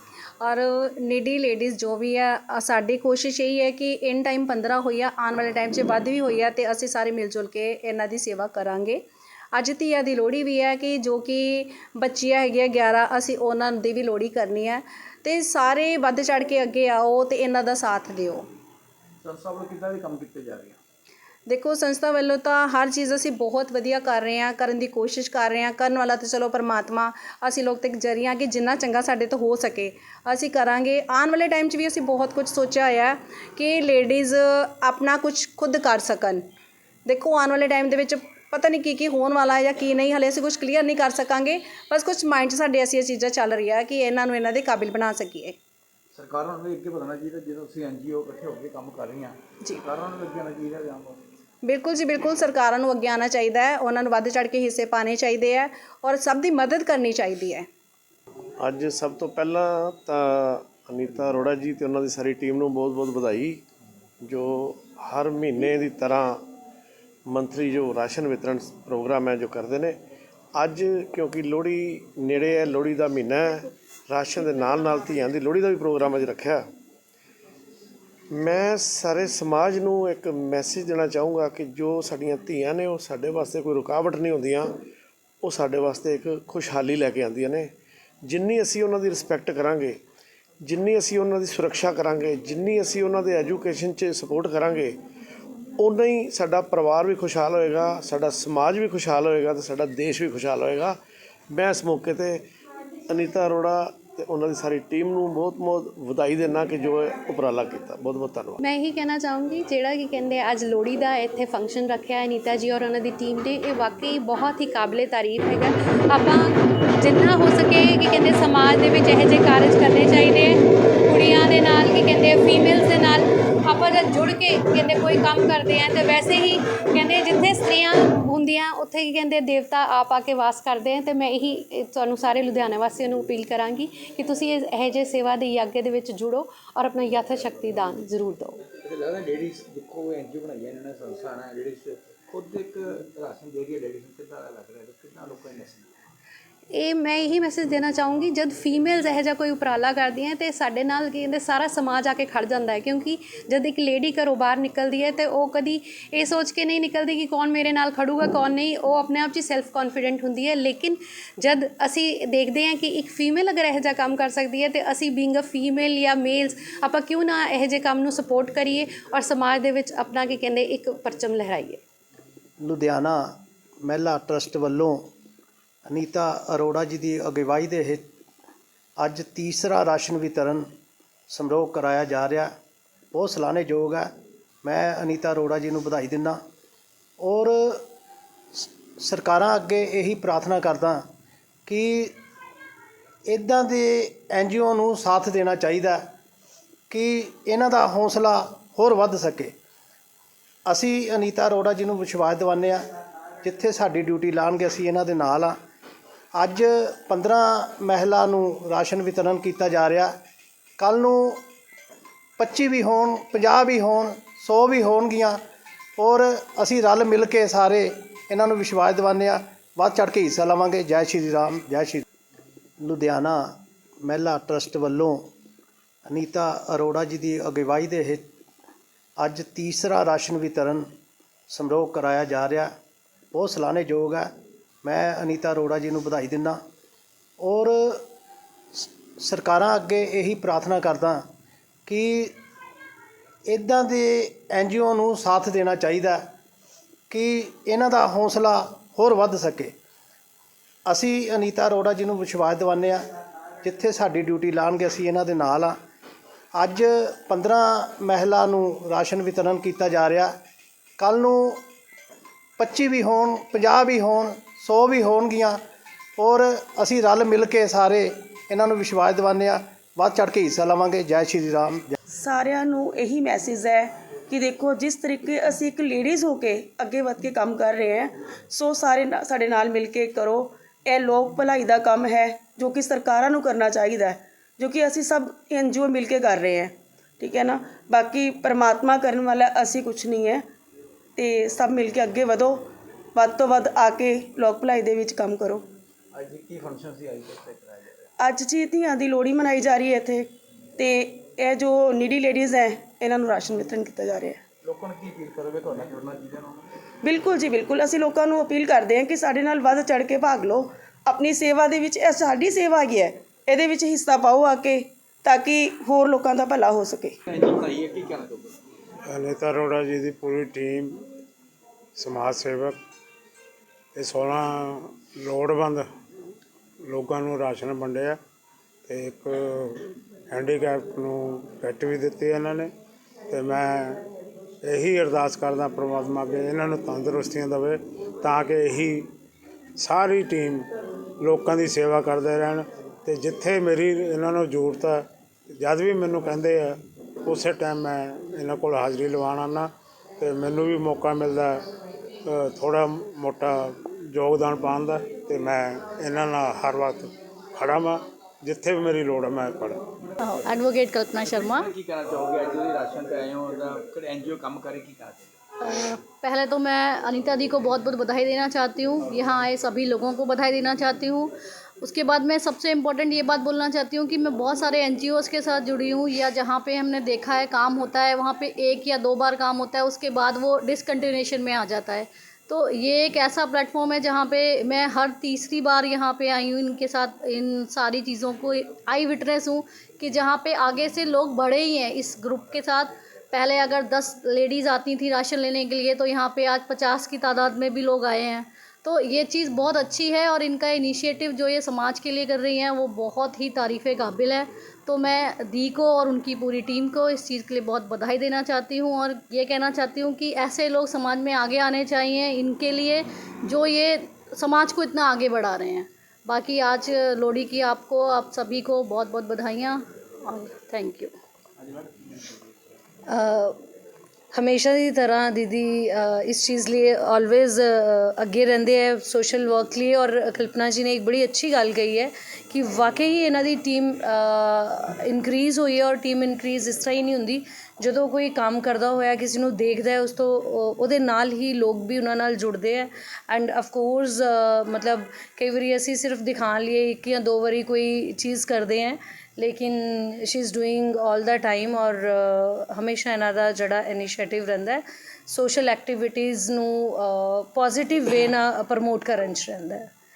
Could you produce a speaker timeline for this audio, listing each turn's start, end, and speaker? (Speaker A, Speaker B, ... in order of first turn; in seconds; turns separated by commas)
Speaker A: 0.4-18.4, Speaker B: 19.2-20.8, Speaker A: 21.5-36.4, Speaker A: 37.0-45.5, Speaker B: 46.1-51.2, Speaker A: 51.6-57.6, Speaker C: 58.6-63.6, Speaker C: 64.2-66.5, Speaker C: 67.3-70.0, Speaker C: 70.5-76.6, Speaker C: 78.3-84.8, Speaker C: 85.4-87.7, Speaker C: 88.2-90.0, Speaker C: 90.6-95.0, Speaker C: 95.8-101.0, Speaker C: 101.5-102.4, Speaker C: 103.1-108.6, Speaker D: 108.6-138.6, Speaker B: 138.7-145.9, Speaker D: 146.7-171.8, Speaker E: 172.6-173.3, Speaker E: 173.8-175.0, Speaker E: 175.9-178.1, Speaker E: 179.0-180.7, Speaker E: 181.3-182.5, Speaker E: 183.1-184.1, Speaker E: 184.6-186.4, Speaker E: 187.2-187.8, Speaker E: 188.5-191.0, Speaker E: 191.7-192.1, Speaker E: 193.3-196.0, Speaker E: 196.9-199.5, Speaker E: 200.7-202.8, Speaker E: 203.4-205.6, Speaker E: 206.3-210.1, Speaker E: 210.8-211.4, Speaker E: 212.4-215.4, Speaker E: 216.0-222.0, Speaker E: 222.8-225.2, Speaker E: 226.1-228.2, Speaker E: 229.2-230.9, Speaker E: 231.5-232.7, Speaker E: 233.3-234.3, Speaker E: 234.8-236.6, Speaker E: 237.4-238.0, Speaker E: 238.7-241.2, Speaker E: 241.9-242.3, Speaker E: 243.5-246.2, Speaker E: 247.1-249.7, Speaker E: 250.9-253.0, Speaker E: 253.6-255.8, Speaker E: 256.5-260.3, Speaker E: 261.0-261.6, Speaker E: 262.6-265.6, Speaker E: 266.2-271.9, Speaker F: 272.2-290.4, Speaker F: 291.1-295.6, Speaker B: 296.1-298.1, Speaker F: 298.2-304.4, Speaker B: 304.6-306.7, Speaker F: 307.0-317.1, Speaker B: 317.3-318.6, Speaker G: 319.1-320.9, Speaker G: 321.9-322.8, Speaker G: 323.9-325.8, Speaker G: 326.9-328.2, Speaker G: 328.9-332.7, Speaker G: 333.3-334.0, Speaker G: 334.6-339.1, Speaker G: 339.8-340.6, Speaker G: 341.2-351.6, Speaker G: 352.3-359.8, Speaker H: 360.2-361.7, Speaker B: 361.2-365.3, Speaker H: 365.6-421.1, Speaker B: 421.6-422.5, Speaker I: 423.1-423.6, Speaker I: 424.3-459.9